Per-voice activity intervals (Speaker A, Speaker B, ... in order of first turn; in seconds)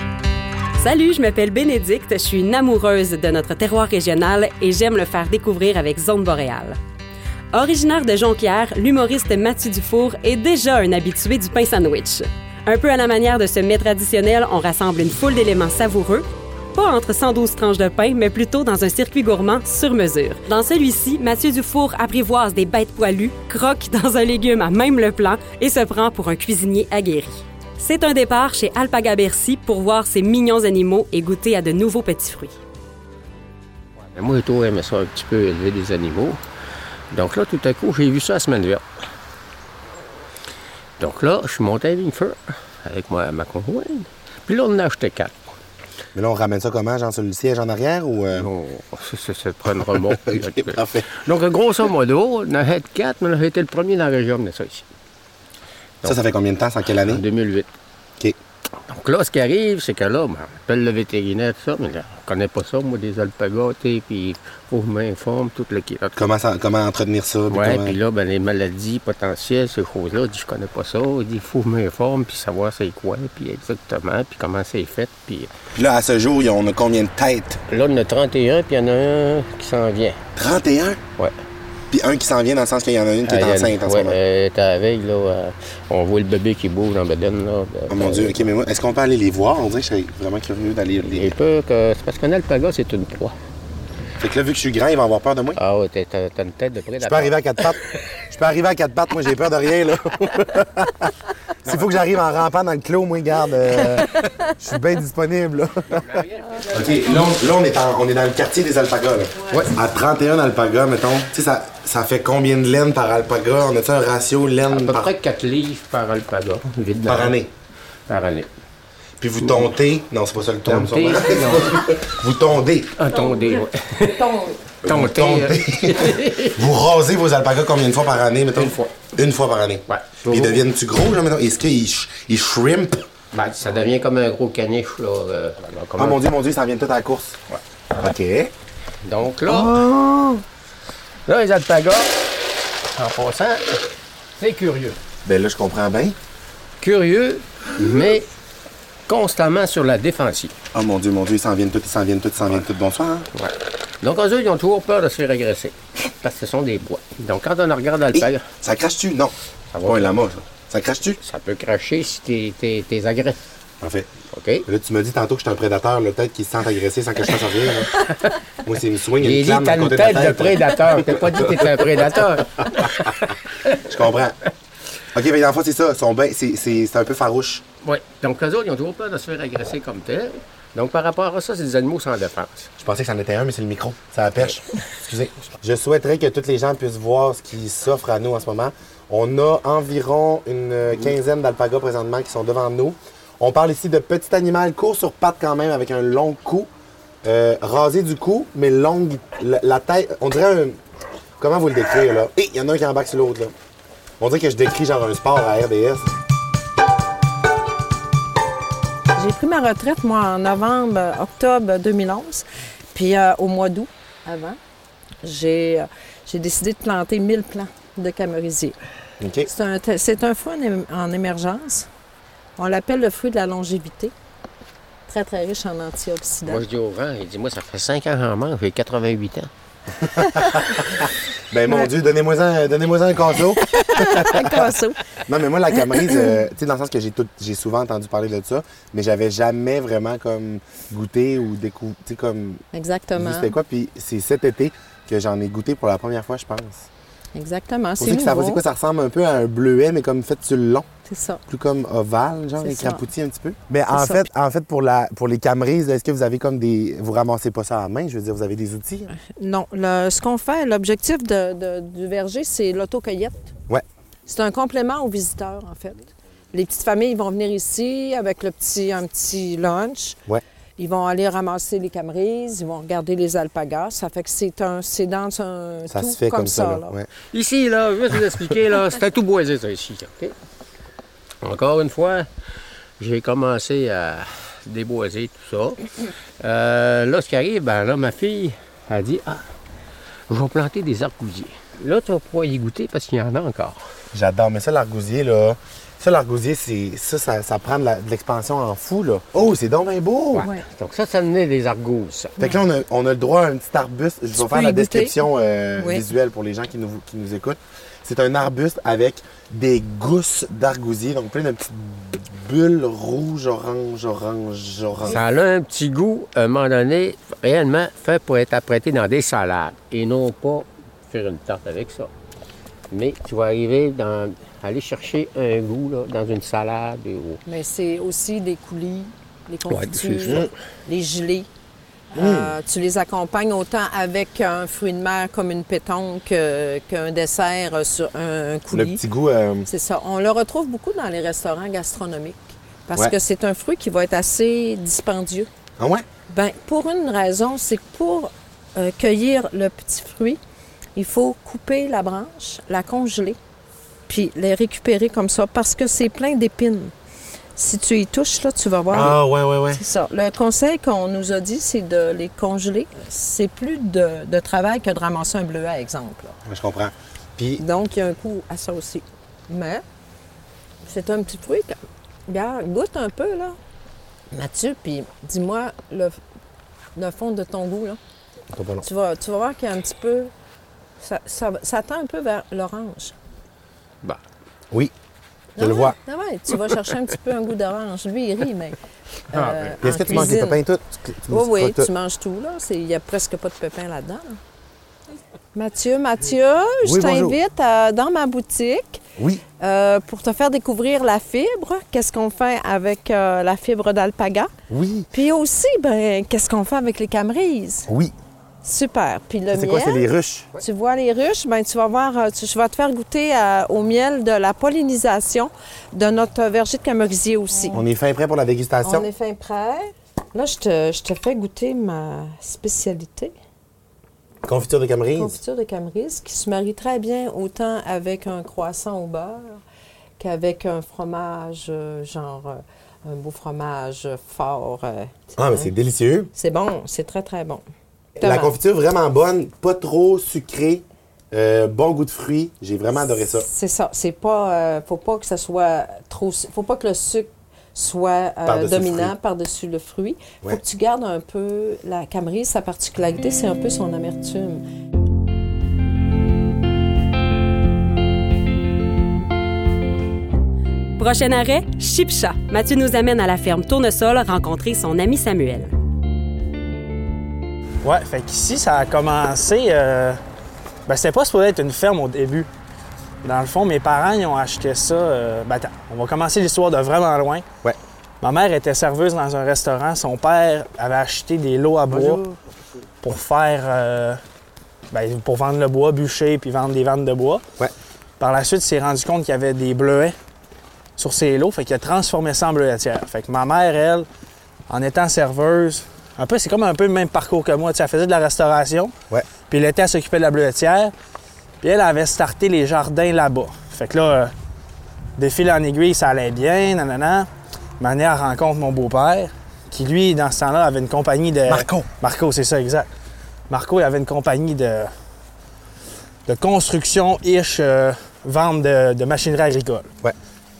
Speaker A: 0.8-6.8, 7.5-32.5, 460.9-465.7
Speaker B: 34.1-36.4, 37.1-38.8, 41.0-45.6, 48.3-54.9, 57.0-57.7, 58.9-66.2, 67.5-75.5, 77.7-80.2, 83.2-88.5, 91.0-93.4, 95.5-97.7, 106.2-106.6, 114.7-117.3, 118.1-118.5, 119.4-119.7, 120.6-122.0, 123.0-126.7, 128.5-129.0, 129.9-130.7, 133.3-136.2, 139.0-139.8, 141.2-142.2, 142.9-143.8, 144.4-145.0, 146.8-148.3, 149.1-150.6, 153.3-158.4, 159.7-160.2, 161.2-163.4, 164.3-164.7, 167.9-168.3, 169.2-173.8, 177.8-182.7, 226.5-229.5, 277.2-280.4, 281.4-282.3, 283.0-285.8, 286.4-289.4, 290.3-293.8, 300.3-302.4, 315.1-322.1, 322.9-327.4, 329.7-330.5
Speaker C: 46.1-48.5, 50.3-51.0, 56.0-57.2, 66.1-68.0, 75.7-77.6, 80.3-81.0, 81.9-84.2, 87.9-91.3, 94.2-95.6, 97.0-101.1, 101.6-106.0, 106.7-115.1, 117.0-117.5, 119.2-122.9, 124.8-133.1, 136.0-137.4, 138.0-138.5, 139.5-140.4, 145.2-146.2, 150.7-153.3, 158.1-161.2, 163.8-164.1, 164.7-168.0, 168.6-171.7, 173.9-174.4, 175.1-177.6, 182.8-196.7, 197.2-200.8, 201.4-203.5, 204.2-206.1, 219.2-219.5, 230.1-234.7, 235.2-242.6, 243.2-246.9, 248.0-250.8, 251.5-259.1, 275.9-277.1, 294.1-300.5, 302.4-315.2, 332.2-332.5, 338.7-339.7, 345.8-346.0, 358.9-359.8, 366.4-367.6, 378.5-378.9, 385.6-385.9, 389.8-391.9, 396.8-397.4, 399.2-399.4, 404.7-405.1, 407.9-408.1, 409.5-410.6, 417.7-419.1, 424.4-425.4, 435.4-436.3, 438.2-443.4, 448.4-449.1, 481.9-482.4, 511.5-511.9
Speaker D: 124.0-124.5, 209.2-214.6, 215.2-218.8, 219.4-221.9, 222.6-224.1, 225.1-226.6, 233.7-235.0, 235.8-236.2, 242.7-243.5, 247.3-248.6, 251.1-251.4, 252.6-253.0, 253.9-254.2, 259.1-263.5, 264.2-270.2, 270.8-276.9, 300.4-300.6, 304.4-305.2, 305.8-306.0, 327.4-331.5, 332.1-339.0, 339.7-345.5, 346.3-350.4, 350.9-353.4, 354.1-356.9, 357.6-359.2, 359.7-366.4, 367.6-369.8, 370.8-373.6, 374.3-376.2, 376.9-378.0, 378.8-380.3, 381.0-383.1, 385.6-388.8, 389.3-390.6, 391.3-394.4, 395.5-399.0, 399.6-404.5, 405.1-407.9, 408.6-410.0, 410.6-417.8, 418.8-423.3, 425.1-429.6, 430.2-435.7, 436.3-437.6, 438.2-438.5, 443.2-454.6
Speaker E: 467.8-470.2, 470.9-472.5, 473.2-477.4, 478.2-482.2, 483.0-484.2, 484.9-487.4, 488.2-490.1, 491.0-494.1, 494.7-498.9, 499.5-500.9, 501.6-504.3, 505.2-507.3, 507.8-512.9, 513.5-514.9, 516.2-519.9